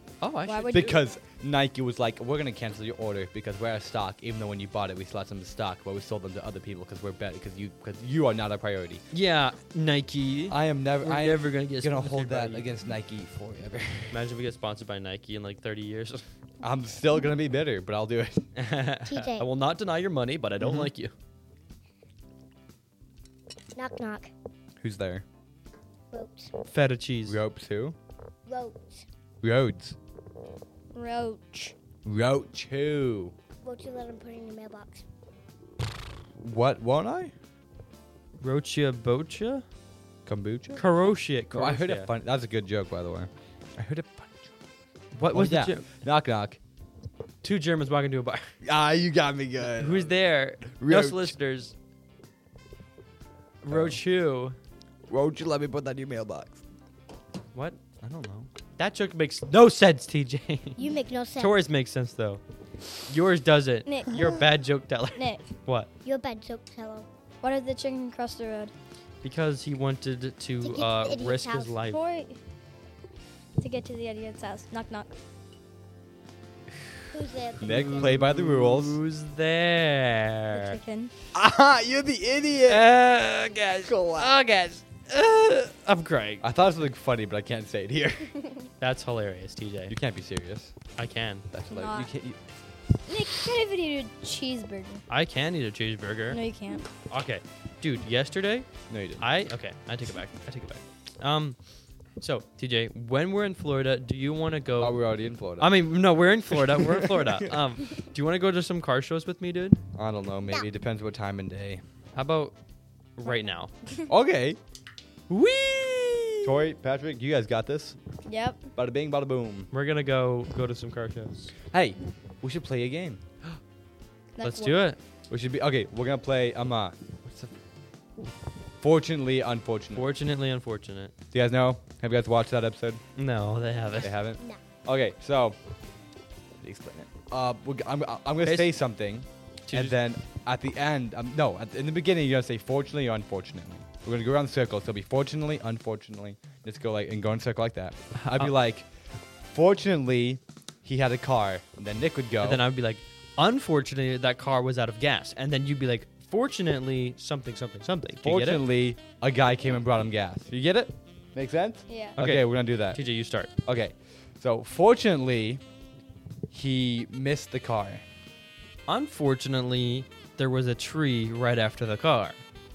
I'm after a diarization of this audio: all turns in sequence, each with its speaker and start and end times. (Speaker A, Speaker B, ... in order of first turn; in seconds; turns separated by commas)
Speaker A: 0.2-0.9, Speaker B: 0.5-1.2, Speaker C: 0.7-9.0, Speaker A: 9.1-12.7, Speaker C: 10.5-14.2, Speaker A: 14.1-16.2, Speaker C: 16.6-18.5, Speaker A: 18.6-21.1, Speaker D: 19.1-19.5, Speaker C: 20.6-20.9, Speaker D: 23.8-24.3, Speaker C: 24.8-25.2, Speaker D: 26.1-26.5, Speaker A: 26.7-27.4, Speaker C: 27.3-28.0, Speaker D: 28.5-29.1, Speaker C: 29.4-30.0, Speaker B: 30.9-31.8, Speaker C: 32.0-33.3, Speaker D: 33.6-35.0, Speaker C: 36.4-37.3, Speaker A: 38.4-39.7, Speaker C: 40.3-40.8, Speaker A: 40.8-42.1, Speaker C: 41.5-44.5, Speaker A: 45.1-45.9, Speaker C: 45.3-46.6, Speaker A: 47.4-48.5, Speaker C: 48.6-51.4, Speaker A: 49.6-51.7, Speaker A: 53.6-54.6, Speaker C: 53.7-54.0, Speaker C: 55.1-56.6, Speaker A: 57.5-57.8, Speaker C: 58.0-58.5, Speaker A: 58.8-60.8, Speaker D: 60.8-61.6, Speaker A: 61.4-62.4, Speaker A: 63.0-65.9, Speaker B: 63.9-64.3, Speaker B: 65.2-65.5, Speaker D: 66.0-67.1, Speaker B: 67.4-68.7, Speaker A: 69.2-72.0, Speaker D: 70.6-71.8, Speaker B: 71.9-72.4, Speaker B: 73.6-75.1, Speaker D: 77.1-78.1, Speaker C: 77.6-79.0, Speaker A: 77.6-80.8, Speaker B: 80.5-81.1, Speaker C: 81.3-82.9, Speaker A: 82.6-86.4, Speaker C: 83.8-84.3, Speaker C: 86.4-88.4, Speaker A: 88.8-90.0, Speaker C: 89.9-90.8, Speaker A: 91.0-91.5, Speaker C: 91.5-92.4, Speaker B: 91.7-92.1, Speaker B: 93.1-95.0, Speaker A: 95.1-96.4, Speaker B: 96.3-96.9, Speaker A: 97.1-101.6, Speaker C: 98.9-99.2, Speaker A: 102.2-105.0, Speaker C: 104.8-105.8, Speaker A: 105.6-109.8, Speaker C: 106.5-107.5, Speaker C: 110.0-111.8, Speaker A: 112.2-112.5, Speaker A: 113.2-113.7, Speaker C: 114.1-114.6, Speaker A: 115.3-116.5, Speaker C: 116.4-118.0, Speaker B: 118.3-118.7, Speaker C: 118.8-119.7, Speaker A: 119.7-121.5, Speaker C: 121.7-123.2, Speaker B: 124.3-124.8, Speaker A: 124.4-125.0, Speaker C: 125.3-127.5, Speaker C: 128.8-130.1, Speaker A: 129.9-131.2, Speaker C: 131.3-133.0, Speaker A: 133.2-134.2, Speaker D: 133.9-134.6, Speaker C: 134.0-135.6, Speaker C: 136.6-148.9, Speaker A: 138.4-138.8, Speaker A: 139.7-140.0, Speaker A: 148.2-148.5, Speaker C: 149.5-152.6, Speaker A: 152.4-158.7, Speaker C: 158.2-163.0, Speaker B: 161.9-162.2, Speaker A: 162.2-163.5, Speaker C: 163.7-165.6, Speaker C: 166.5-168.0, Speaker A: 168.9-172.4